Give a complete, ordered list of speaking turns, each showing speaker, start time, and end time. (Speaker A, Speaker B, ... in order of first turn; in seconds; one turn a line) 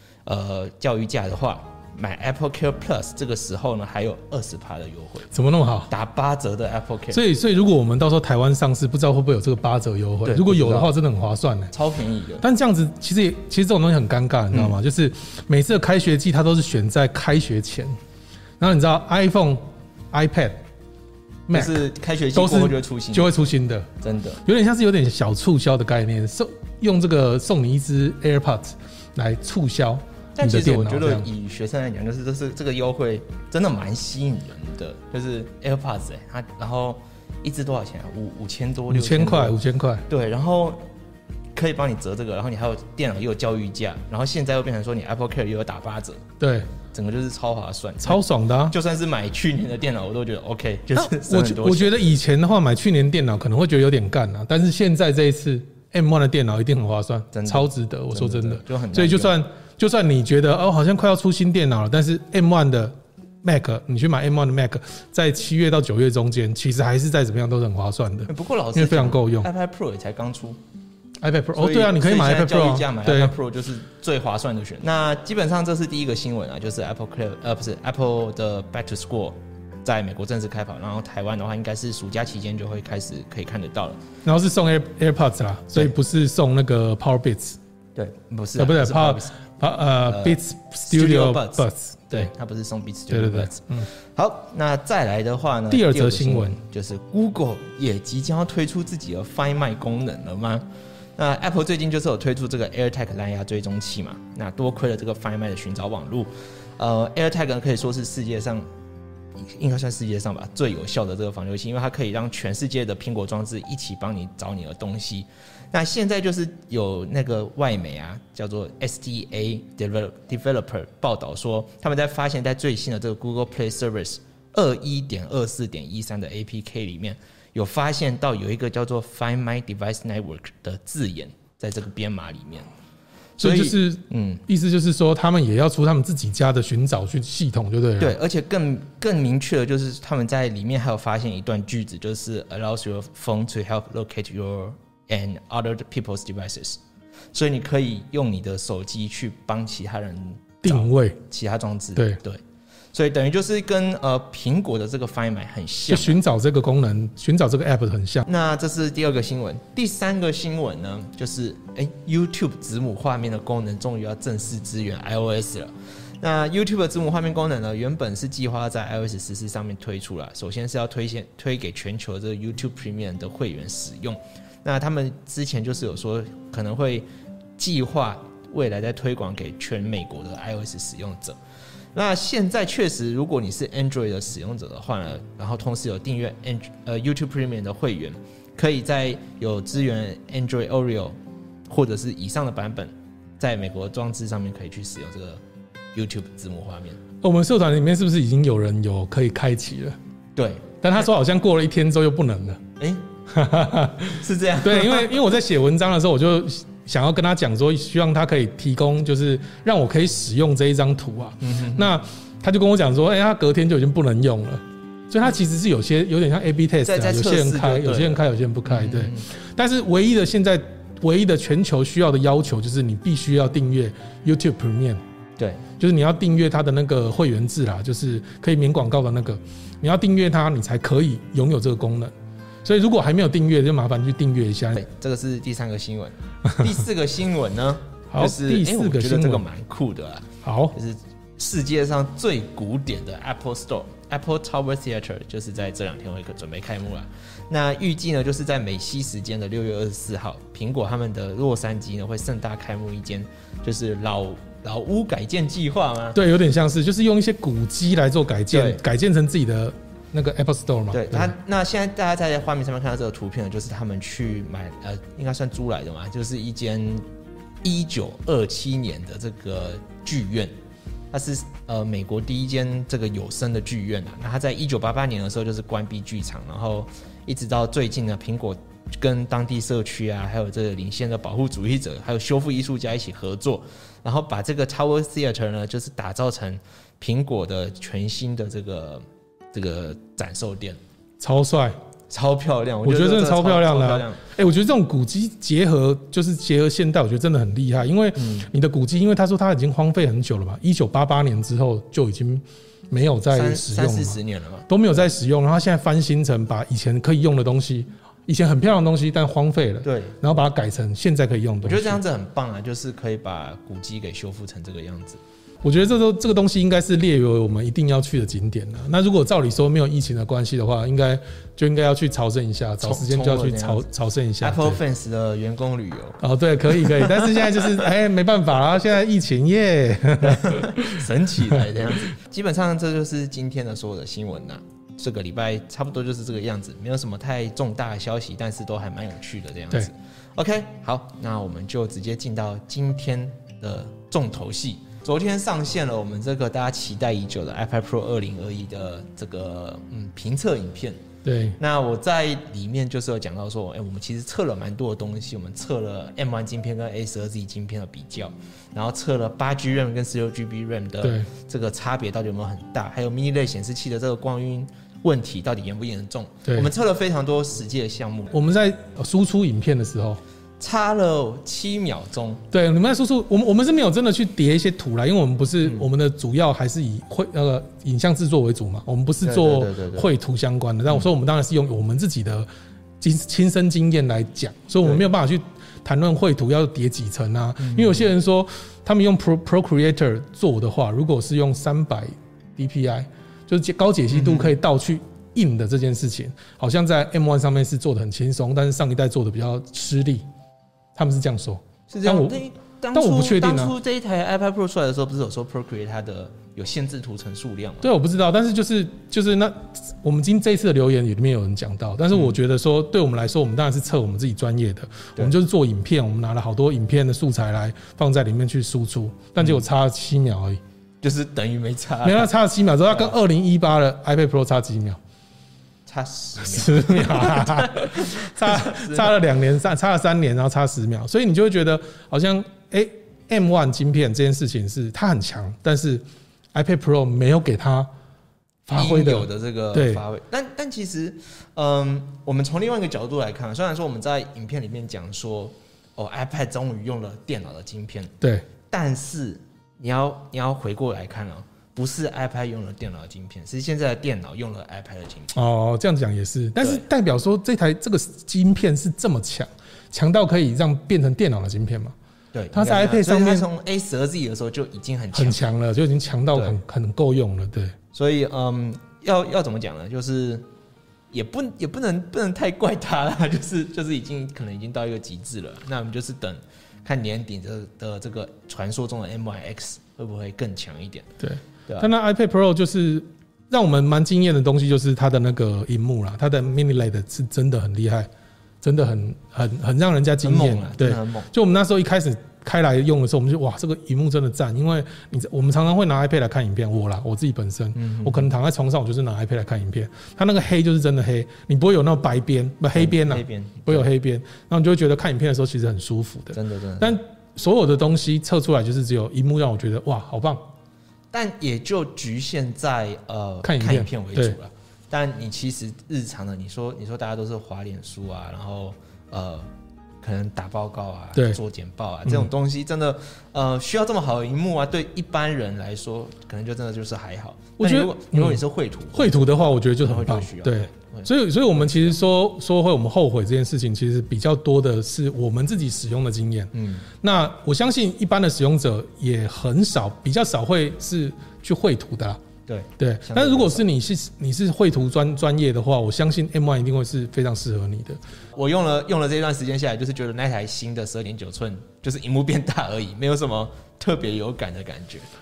Speaker A: 0.2-5.3
Speaker B: 5.3-5.9
Speaker A: 5.9-7.2
Speaker B: 7.1-11.7
Speaker A: 10.2-10.9
Speaker A: 11.7-12.4
Speaker B: 12.4-17.9
Speaker A: 14.5-14.8
Speaker B: 18.6-20.6
Speaker B: 21.5-21.8
Speaker A: 21.5-23.3
Speaker B: 22.3-23.9
Speaker A: 24.0-24.4
Speaker B: 24.4-31.3
Speaker A: 30.4-40.8
Speaker B: 38.9-40.0
Speaker A: 41.5-46.2
Speaker B: 46.4-46.7
Speaker A: 46.9-51.9
Speaker B: 48.0-48.7
Speaker B: 51.0-69.5
Speaker A: 57.3-59.3
Speaker A: 68.3-70.6
Speaker B: 71.2-73.3
Speaker A: 71.5-84.0
Speaker B: 84.2-87.6
Speaker A: 88.0-89.4
Speaker B: 88.6-92.3
Speaker A: 90.0-100.7
Speaker B: 93.1-93.9
Speaker B: 95.7-96.6
Speaker A: 101.2-108.7
Speaker A: 109.4-132.7
Speaker A: 133.4-134.4
Speaker B: 133.4-138.2
Speaker A: 138.0-146.8
Speaker A: 147.3-152.4
Speaker B: 150.6-151.2
Speaker A: 152.9-156.2
Speaker B: 155.9-158.2
Speaker A: 158.2-177.1
Speaker A: 177.6-181.4
Speaker A: 181.9-191.2
Speaker A: 191.7-195.4
Speaker A: 195.9-197.0
Speaker B: 197.2-200.0
Speaker A: 200.3-200.7
Speaker B: 200.8-202.6
Speaker A: 202.8-203.0
Speaker B: 203.3-225.0
Speaker A: 204.1-205.3
Speaker A: 211.4-211.9
Speaker A: 216.8-219.3
Speaker B: 225.8-232.1
Speaker B: 232.6-234.8
Speaker A: 234.7-256.2
Speaker B: 238.1-239.4
Speaker B: 240.4-240.8
Speaker B: 256.1-261.3
Speaker A: 258.5-258.8
Speaker A: 260.9-267.0
Speaker A: 267.6-270.5
Speaker A: 271.1-290.8
Speaker B: 291.2-291.8
Speaker A: 292.1-294.2
Speaker B: 292.8-312.0
Speaker A: 298.2-298.5
Speaker A: 303.3-304.7
Speaker A: 309.8-310.2
Speaker A: 311.6-315.2
Speaker B: 315.6-324.8
Speaker A: 322.8-323.9
Speaker A: 324.4-327.7
Speaker B: 326.2-331.6
Speaker A: 330.2-351.0
Speaker B: 351.2-351.6
Speaker A: 351.6-368.4
Speaker B: 361.0-361.3
Speaker B: 368.3-370.2
Speaker A: 370.6-372.4
Speaker B: 372.5-382.5
Speaker A: 379.2-380.1
Speaker B: 383.0-400.2
Speaker A: 387.6-388.1
Speaker A: 394.1-394.5
Speaker B: 400.9-402.4
Speaker A: 401.9-407.9
Speaker B: 402.9-403.7
Speaker B: 407.8-420.6
Speaker A: 421.0-422.3
Speaker B: 422.0-425.0
Speaker A: 422.9-423.1
Speaker A: 425.9-429.2
Speaker B: 426.4-437.9
Speaker B: 438.7-440.0
Speaker A: 438.7-448.1
Speaker B: 448.2-448.4
Speaker A: 448.7-455.3
Speaker B: 455.3-461.9
Speaker A: 462.3-465.5
Speaker B: 462.5-463.4
Speaker B: 465.1-467.8
Speaker A: 467.9-470.5
Speaker A: 471.1-481.1
Speaker B: 481.2-488.1
Speaker B: 488.6-510.4
Speaker A: 490.2-491.3
Speaker A: 497.7-498.3
Speaker A: 502.7-503.9
Speaker A: 506.3-507.0
Speaker A: 511.1-519.5
Speaker B: 513.4-514.4
Speaker A: 520.0-529.2
Speaker B: 527.6-528.4
Speaker B: 528.9-542.2
Speaker A: 529.8-531.9
Speaker A: 536.5-536.9
Speaker A: 542.5-543.6
Speaker B: 542.8-548.0
Speaker A: 548.3-555.1